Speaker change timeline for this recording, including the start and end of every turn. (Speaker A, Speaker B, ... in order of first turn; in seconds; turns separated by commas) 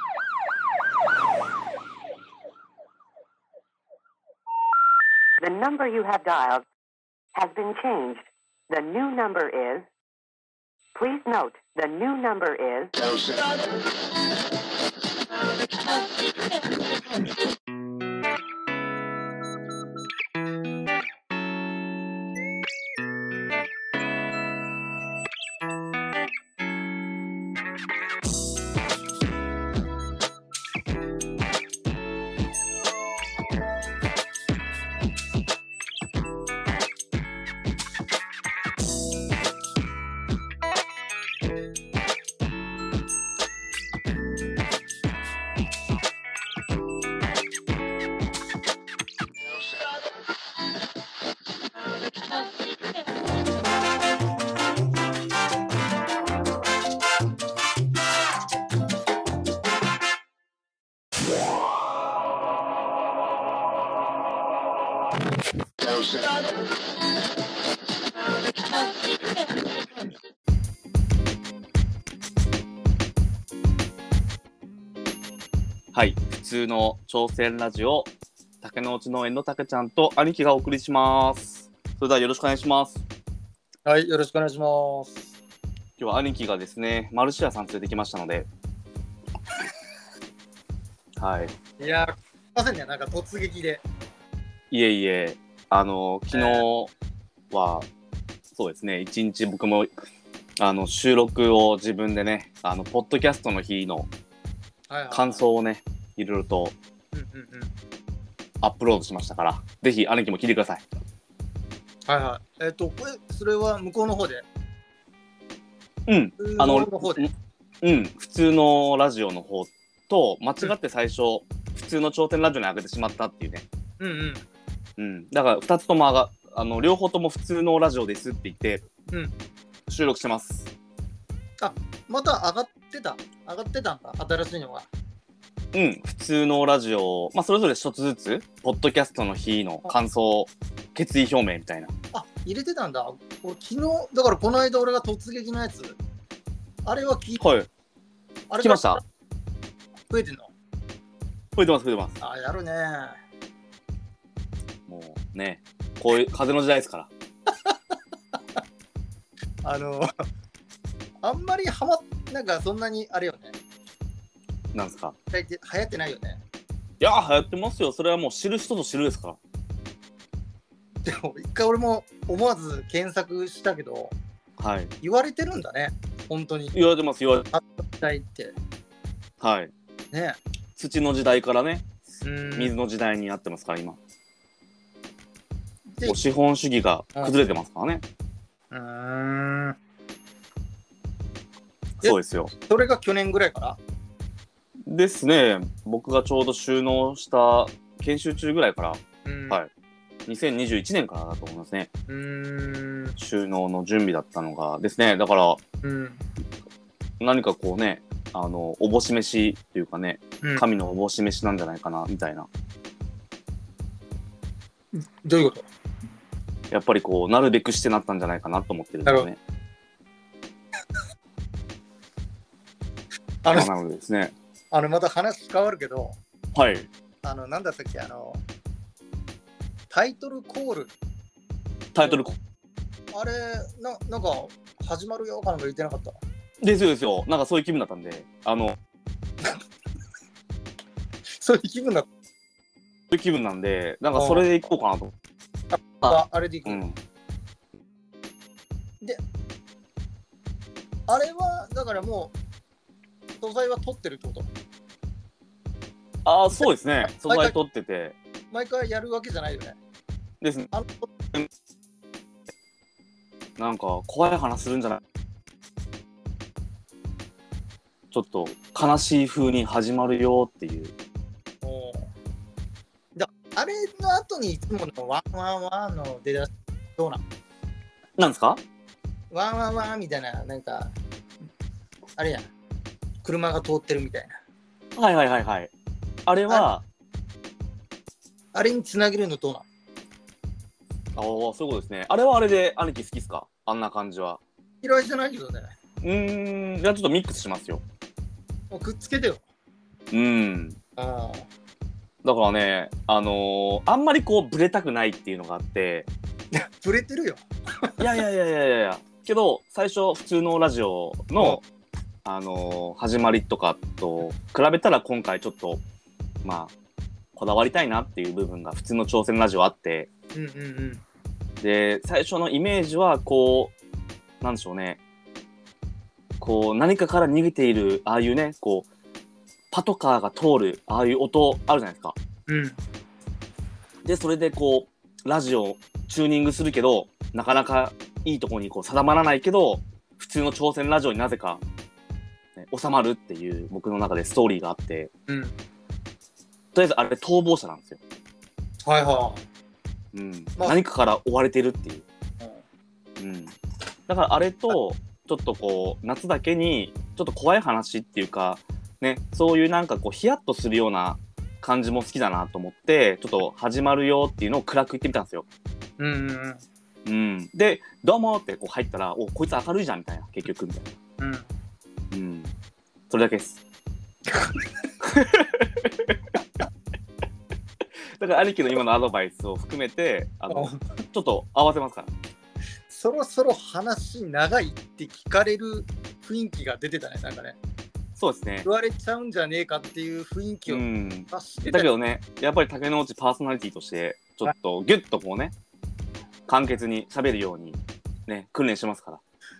Speaker A: 5.4-6.6, Speaker A: 7.3-9.9, Speaker A: 10.9-13.0, Speaker B: 75.9-83.0, Speaker C: 83.8-85.3, Speaker B: 86.0-88.5, Speaker B: 91.2-91.5, Speaker C: 91.8-93.8, Speaker B: 94.7-96.9, Speaker C: 96.3-96.6, Speaker B: 97.5-97.9, Speaker B: 98.5-99.9, Speaker B: 100.6-104.1, Speaker C: 104.9-105.4, Speaker B: 105.1-106.8, Speaker C: 107.1-107.7, Speaker B: 108.6-110.8, Speaker C: 112.1-114.5, Speaker B: 116.1-117.3, Speaker C: 116.4-117.3, Speaker B: 117.8-123.7, Speaker C: 124.0-124.5, Speaker B: 125.0-128.9, Speaker B: 129.9-130.7, Speaker C: 131.6-134.9, Speaker B: 135.7-141.9, Speaker C: 142.1-146.0, Speaker C: 146.8-147.4, Speaker B: 147.4-147.7, Speaker C: 148.5-149.0, Speaker B: 148.6-149.0, Speaker C: 150.1-150.5, Speaker B: 151.6-152.2, Speaker C: 152.2-153.2, Speaker B: 154.9-157.1, Speaker C: 159.6-160.1, Speaker C: 161.2-163.6, Speaker B: 164.7-165.2, Speaker C: 165.3-166.4, Speaker B: 167.0-169.4, Speaker C: 171.0-174.2, Speaker B: 174.6-174.9, Speaker C: 175.0-176.7, Speaker B: 176.7-177.5, Speaker C: 177.5-178.6, Speaker B: 179.4-179.7, Speaker C: 180.1-180.4, Speaker B: 180.8-184.0, Speaker C: 182.2-182.7, Speaker C: 185.9-186.2, Speaker B: 186.0-188.0, Speaker C: 188.7-189.8, Speaker B: 192.0-192.5, Speaker C: 192.0-193.8, Speaker B: 194.8-199.7, Speaker C: 199.2-199.6, Speaker B: 200.2-201.9, Speaker C: 202.1-203.1, Speaker B: 203.2-205.6, Speaker C: 205.8-206.2, Speaker B: 207.2-212.5, Speaker C: 214.9-215.7, Speaker B: 216.7-219.4, Speaker C: 223.4-223.7, Speaker B: 223.5-224.3, Speaker C: 224.7-226.2, Speaker B: 226.5-226.9, Speaker C: 227.2-228.4, Speaker C: 229.9-230.9, Speaker B: 231.9-232.4, Speaker C: 233.1-236.2, Speaker B: 236.6-238.8, Speaker C: 241.4-242.1, Speaker B: 243.1-245.1, Speaker C: 244.2-244.5, Speaker C: 245.7-246.8, Speaker B: 246.0-247.0, Speaker C: 251.1-252.3, Speaker C: 253.4-254.5, Speaker B: 256.2-258.1, Speaker C: 256.6-257.5, Speaker C: 258.5-259.8, Speaker B: 260.4-260.7, Speaker C: 260.7-261.1, Speaker B: 263.6-265.0, Speaker B: 268.1-270.9, Speaker C: 271.6-272.1, Speaker C: 273.1-277.2, Speaker B: 278.2-278.6, Speaker C: 279.3-280.9, Speaker C: 282.2-282.5, Speaker C: 283.2-284.3, Speaker B: 284.9-285.7, Speaker B: 286.2-286.8, Speaker C: 288.5-289.7, Speaker B: 291.1-294.4, Speaker C: 294.8-295.7, Speaker B: 296.0-297.8, Speaker C: 298.7-299.4, Speaker B: 300.1-300.8, Speaker C: 301.0-301.5, Speaker B: 302.2-306.1, Speaker C: 306.5-308.2, Speaker B: 308.0-311.6, Speaker B: 312.2-315.8, Speaker B: 316.4-316.7, Speaker B: 317.4-320.1, Speaker C: 320.3-321.0, Speaker B: 321.6-323.7, Speaker B: 324.4-325.0, Speaker B: 326.4-328.9, Speaker B: 329.7-332.1, Speaker C: 332.5-332.8, Speaker B: 334.0-341.6, Speaker B: 342.6-345.1, Speaker C: 345.3-345.5, Speaker B: 346.7-348.0, Speaker C: 348.8-349.4, Speaker B: 350.1-352.0, Speaker B: 353.2-353.5, Speaker B: 354.1-365.4, Speaker C: 366.0-366.6, Speaker B: 367.0-370.9, Speaker C: 371.2-371.5, Speaker B: 372.1-372.5, Speaker B: 373.1-373.6, Speaker C: 374.3-374.6, Speaker B: 375.0-376.2, Speaker B: 378.2-382.1, Speaker C: 380.5-381.0, Speaker C: 382.9-387.6, Speaker B: 388.1-388.7, Speaker C: 388.6-391.9, Speaker B: 390.7-395.5, Speaker B: 396.5-399.2